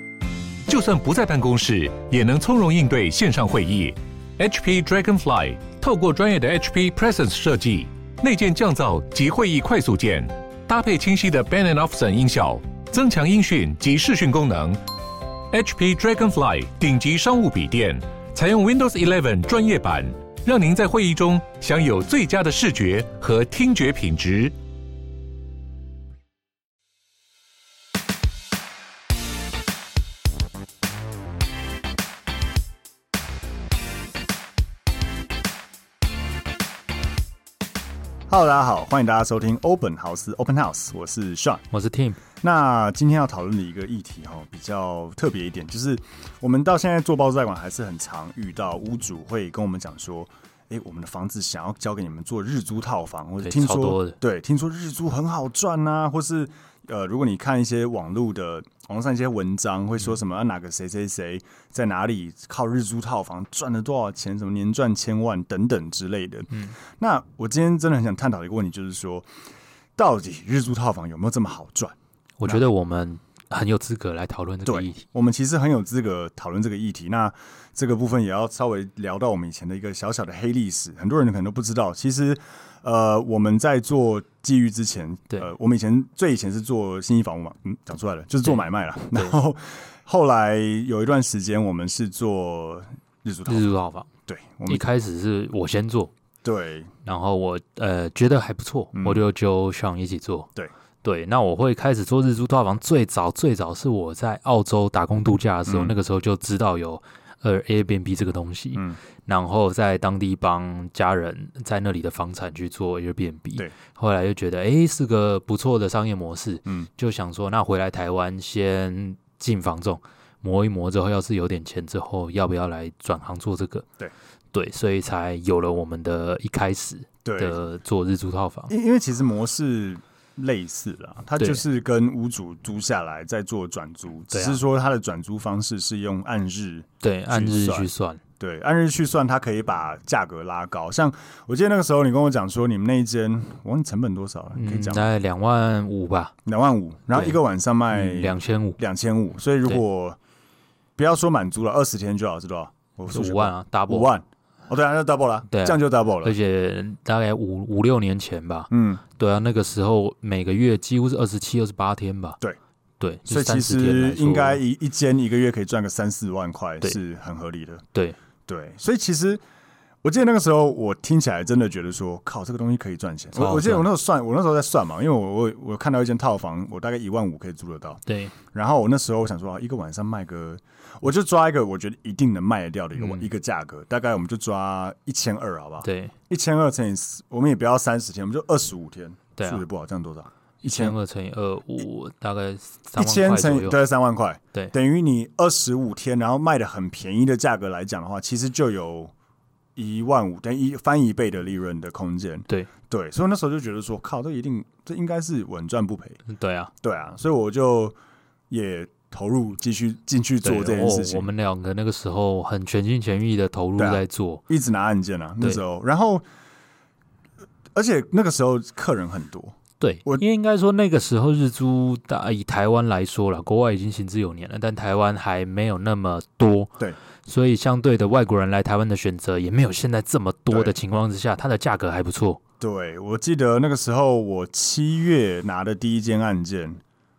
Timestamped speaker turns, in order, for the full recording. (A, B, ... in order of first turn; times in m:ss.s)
0:00.7-0:14.8 A
0:15.5-0:24.5 A
0:38.3-0:41.6 B
0:41.7-0:42.2 C
0:42.4-1:09.3 B
0:53.4-0:54.2 C
1:10.0-1:12.6 B
1:12.4-1:15.0 C
1:14.6-1:33.7 B
1:33.5-1:34.1 C
1:34.3-1:34.8 B
1:34.7-1:36.1 C
1:36.4-1:36.9 B
1:37.0-1:40.5 C
1:38.9-1:39.2 B
1:41.0-2:03.9 C
1:45.7-1:45.9 B
1:48.7-1:49.0 B
2:04.5-2:08.7 C
2:07.2-2:07.6 B
2:08.7-2:25.1 B
2:14.3-2:14.6 C
2:17.0-2:18.2 C
2:24.5-2:26.3 C
2:26.4-2:30.2 B
2:27.1-2:27.4 C
2:27.9-2:28.8 C
2:31.0-2:36.4 B
2:33.1-2:34.1 C
2:35.5-2:42.4 C
2:38.7-2:39.0 B
2:43.0-2:44.6 C
2:43.3-2:47.8 B
2:48.5-2:49.4 B
2:50.0-3:10.9 B
2:53.3-2:53.9 C
2:58.1-2:58.4 C
3:03.0-3:03.3 C
3:05.8-3:06.1 C
3:09.4-3:09.6 C
3:10.6-3:13.8 C
3:13.0-3:19.1 B
3:19.8-3:26.2 B
3:26.3-3:26.7 C
3:26.8-3:28.0 B
3:28.5-3:31.3 B
3:30.4-3:34.4 C
3:33.8-3:36.2 B
3:37.7-3:40.2 B
3:39.8-3:52.4 C
3:50.5-3:50.7 B
3:52.6-3:56.8 B